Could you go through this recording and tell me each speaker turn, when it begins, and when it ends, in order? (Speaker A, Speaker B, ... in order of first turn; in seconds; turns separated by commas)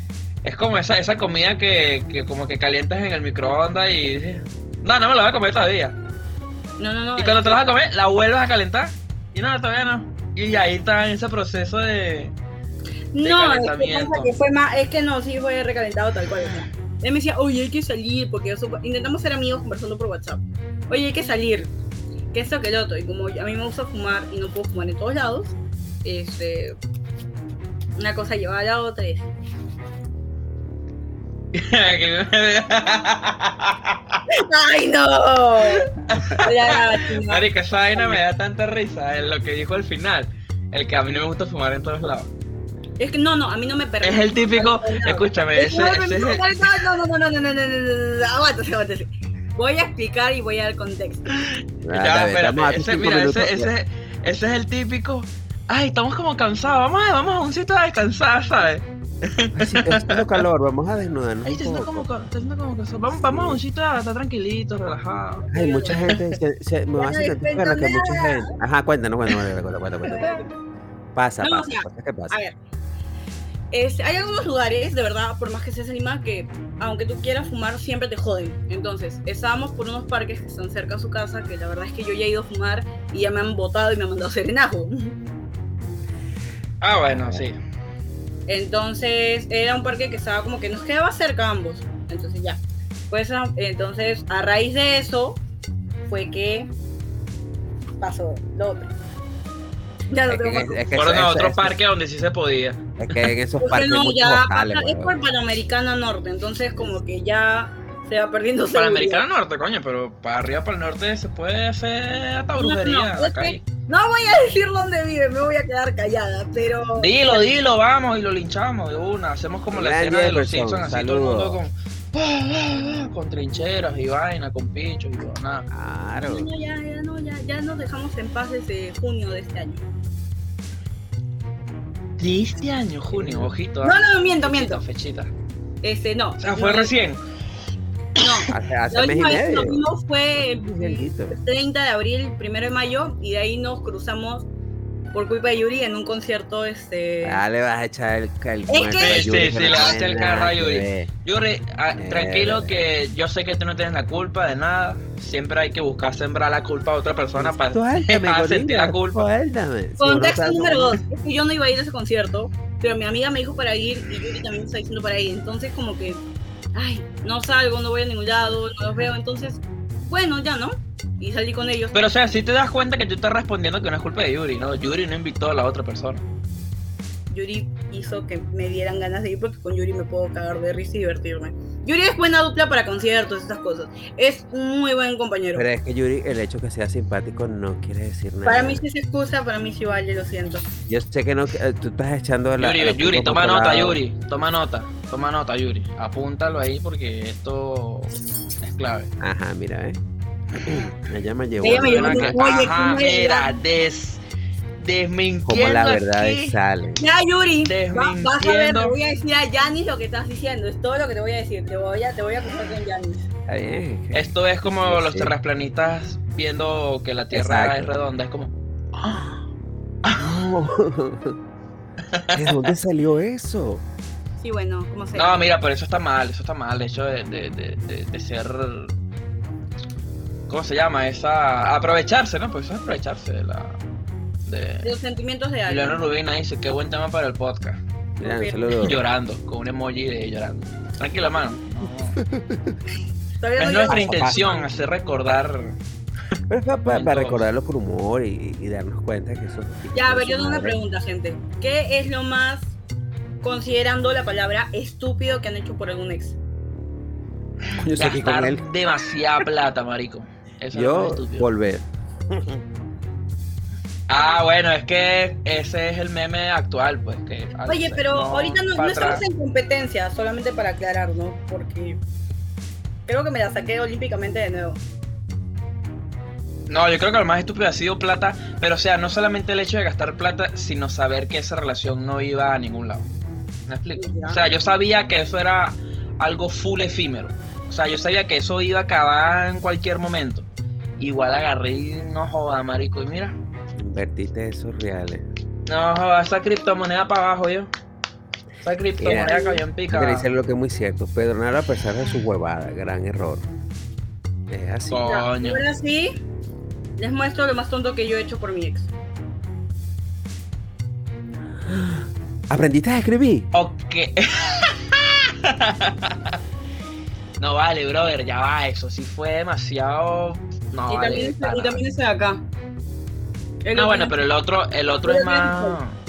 Speaker A: 0.4-6.0, Speaker B: 6.8-7.7, Speaker A: 7.2-12.3, Speaker B: 13.1-21.7, Speaker A: 13.2-14.3, Speaker B: 22.3-26.8, Speaker B: 28.0-29.3, Speaker A: 31.5-34.2, Speaker B: 34.3-38.2, Speaker A: 36.1-42.3, Speaker B: 43.0-51.3, Speaker A: 44.0-46.6, Speaker A: 51.3-60.4, Speaker C: 51.9-53.7, Speaker C: 59.6-62.1, Speaker A: 61.4-66.2, Speaker C: 63.1-63.6, Speaker B: 65.5-66.1, Speaker C: 65.5-70.4, Speaker B: 67.0-68.5, Speaker B: 70.0-70.5, Speaker C: 71.1-72.4, Speaker B: 71.4-72.6, Speaker B: 73.7-85.2, Speaker A: 86.8-87.6, Speaker C: 87.1-87.4, Speaker B: 88.5-95.4, Speaker B: 96.1-96.7, Speaker B: 98.0-98.9, Speaker B: 100.1-100.8, Speaker C: 100.3-101.8, Speaker A: 100.9-103.3, Speaker C: 103.0-105.2, Speaker B: 103.6-109.2, Speaker A: 108.7-113.6, Speaker B: 112.6-117.5, Speaker A: 117.0-125.7, Speaker C: 119.7-121.6, Speaker C: 125.7-126.5, Speaker B: 126.2-129.8, Speaker A: 132.2-135.3, Speaker C: 133.1-133.5, Speaker B: 133.8-134.8, Speaker B: 135.8-136.9, Speaker A: 136.4-137.2, Speaker B: 138.2-144.5, Speaker C: 138.5-139.8, Speaker C: 140.6-141.3, Speaker B: 145.1-147.4, Speaker C: 147.2-151.1, Speaker B: 148.7-149.9, Speaker A: 149.0-159.2, Speaker C: 152.0-152.7, Speaker C: 157.4-161.0, Speaker B: 160.0-166.2, Speaker B: 166.7-171.9, Speaker A: 171.9-176.2, Speaker B: 177.3-185.6, Speaker C: 185.6-188.8, Speaker B: 188.4-190.7, Speaker C: 190.9-194.0, Speaker A: 192.6-199.1, Speaker C: 199.2-200.0, Speaker C: 200.6-202.4, Speaker B: 201.6-203.6, Speaker A: 201.6-204.2, Speaker A: 204.8-206.6, Speaker C: 205.4-207.0, Speaker B: 207.0-213.3, Speaker A: 207.6-208.9, Speaker C: 213.5-215.3, Speaker A: 214.1-219.4, Speaker C: 217.3-217.9, Speaker A: 220.0-220.4, Speaker C: 220.2-221.4, Speaker A: 222.1-222.7, Speaker C: 222.3-223.8, Speaker B: 224.4-225.4, Speaker A: 225.1-228.9, Speaker A: 230.5-233.8, Speaker A: 234.5-234.9, Speaker B: 234.8-236.0, Speaker A: 235.7-237.8, Speaker C: 238.2-239.0, Speaker B: 238.2-238.7, Speaker A: 238.8-242.2, Speaker C: 242.2-242.7, Speaker B: 243.4-244.7, Speaker A: 243.6-245.8, Speaker C: 243.9-244.6, Speaker C: 246.5-250.8, Speaker A: 246.9-247.4, Speaker B: 249.9-252.7, Speaker B: 253.4-256.4, Speaker A: 257.7-261.5, Speaker C: 257.8-258.6, Speaker C: 260.7-262.6, Speaker A: 264.1-269.2, Speaker B: 267.6-272.0, Speaker B: 273.1-274.8, Speaker A: 276.7-283.1, Speaker A: 283.7-290.5, Speaker B: 283.9-284.4, Speaker A: 291.0-293.4, Speaker C: 293.8-295.2, Speaker A: 295.7-297.7, Speaker A: 298.6-300.2, Speaker C: 299.0-303.4, Speaker B: 299.2-299.6, Speaker C: 304.5-305.1, Speaker A: 304.9-305.6, Speaker B: 305.0-306.1, Speaker B: 307.0-308.9, Speaker C: 311.6-313.5, Speaker A: 313.5-316.4, Speaker A: 317.4-321.8, Speaker B: 320.9-322.4, Speaker B: 323.6-324.2, Speaker A: 323.7-325.9, Speaker B: 325.0-325.8